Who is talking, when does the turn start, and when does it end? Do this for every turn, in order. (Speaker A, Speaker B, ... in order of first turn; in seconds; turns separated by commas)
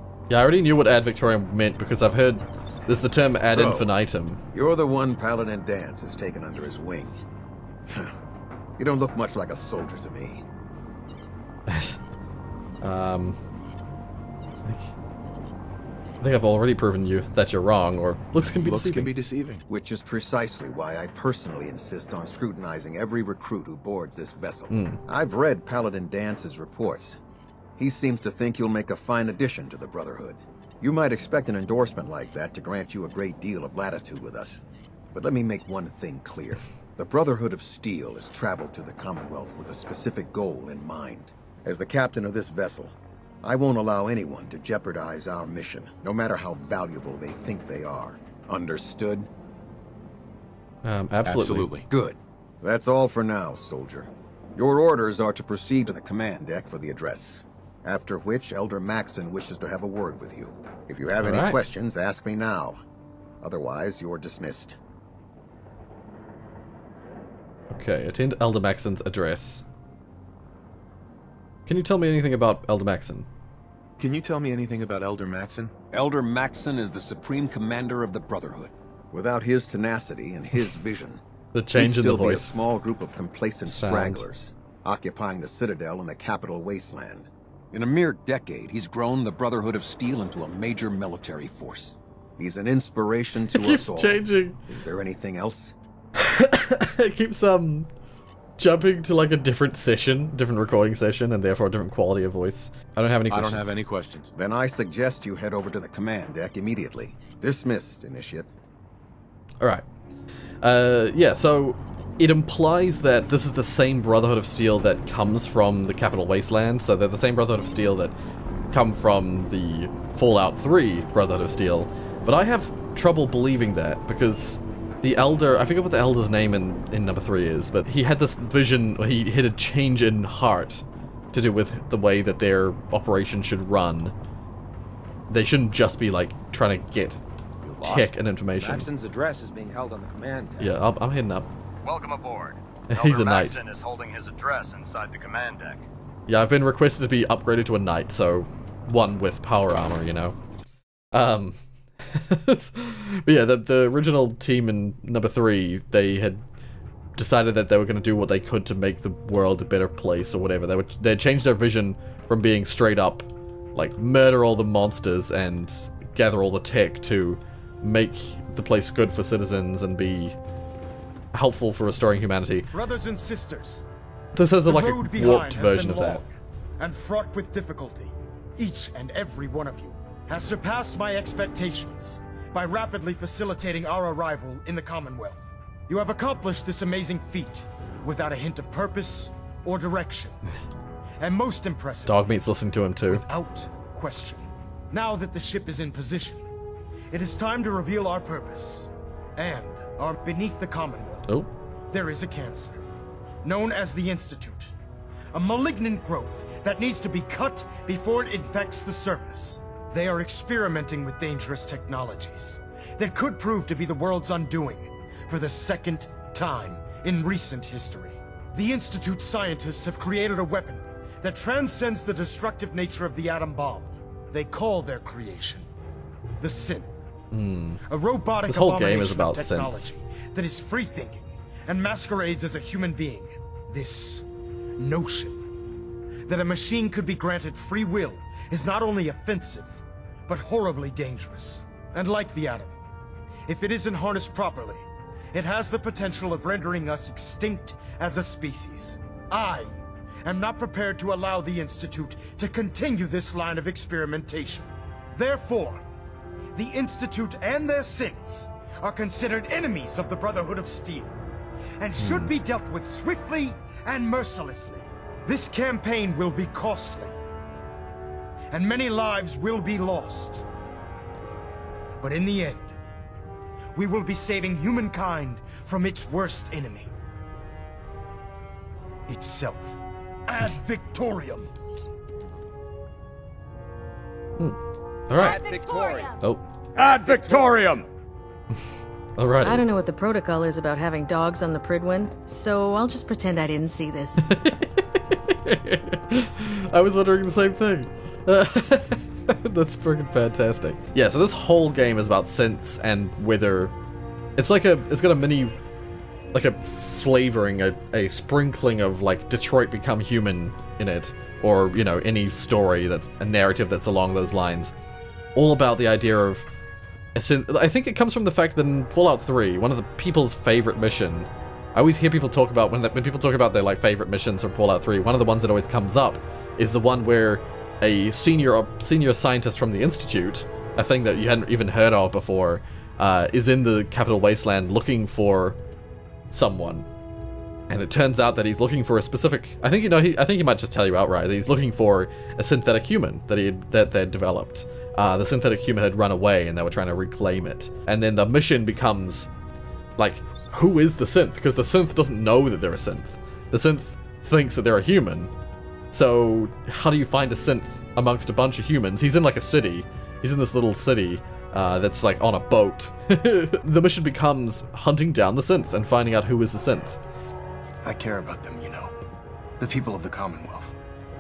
Speaker A: 0.3-4.4, Speaker B: 3.5-3.9, Speaker B: 4.5-7.2, Speaker B: 7.9-8.1, Speaker B: 8.8-10.4, Speaker A: 11.7-12.0, Speaker A: 12.8-13.4, Speaker A: 14.7-14.9, Speaker A: 16.2-19.1, Speaker C: 18.4-19.6, Speaker B: 19.7-27.2, Speaker A: 24.7-25.0, Speaker B: 27.8-34.6, Speaker B: 35.1-49.3, Speaker A: 50.8-51.7, Speaker C: 51.3-51.9, Speaker B: 51.9-62.8, Speaker A: 61.2-61.6, Speaker B: 63.4-64.8, Speaker A: 67.7-69.6, Speaker A: 71.7-73.3, Speaker C: 74.0-75.7, Speaker B: 75.9-81.2, Speaker A: 81.5-82.6, Speaker B: 81.8-95.8, Speaker A: 83.7-84.2, Speaker A: 93.5-94.6, Speaker A: 96.2-97.9, Speaker A: 98.6-103.8, Speaker C: 103.3-104.3, Speaker B: 104.3-108.5, Speaker A: 110.6-118.1, Speaker A: 118.7-134.1, Speaker A: 135.3-137.2, Speaker D: 137.6-140.8, Speaker A: 137.8-138.9, Speaker A: 140.6-141.5, Speaker E: 141.8-145.8, Speaker A: 142.9-143.6, Speaker A: 146.3-150.4, Speaker A: 151.1-156.4, Speaker A: 157.2-170.4, Speaker A: 171.3-172.7, Speaker F: 172.7-173.8, Speaker A: 174.3-176.2, Speaker F: 174.7-190.4, Speaker F: 191.2-192.2, Speaker A: 192.1-193.2, Speaker F: 193.1-196.4, Speaker F: 197.1-201.3, Speaker F: 201.9-202.8, Speaker F: 203.4-204.7, Speaker F: 205.3-225.7, Speaker F: 226.4-226.9, Speaker A: 227.3-227.8, Speaker F: 227.9-234.2, Speaker A: 228.4-229.9, Speaker F: 234.8-235.4, Speaker F: 236.3-242.8, Speaker F: 243.5-255.8, Speaker F: 256.6-261.1, Speaker F: 261.8-267.1, Speaker A: 262.0-262.3, Speaker F: 268.5-270.4, Speaker F: 272.0-272.7, Speaker F: 273.8-276.9, Speaker F: 279.1-281.5, Speaker A: 285.1-285.4, Speaker D: 285.2-286.1, Speaker E: 285.4-286.0, Speaker E: 286.8-287.9, Speaker D: 286.8-287.7, Speaker A: 289.2-289.7, Speaker G: 289.4-294.2, Speaker A: 294.2-303.7, Speaker A: 304.4-305.6, Speaker A: 306.3-314.7, Speaker A: 315.4-316.5, Speaker A: 317.1-335.6, Speaker A: 336.3-336.9, Speaker A: 337.7-349.3, Speaker A: 350.0-355.3, Speaker A: 355.9-367.0, Speaker F: 367.8-368.9, Speaker F: 369.6-370.8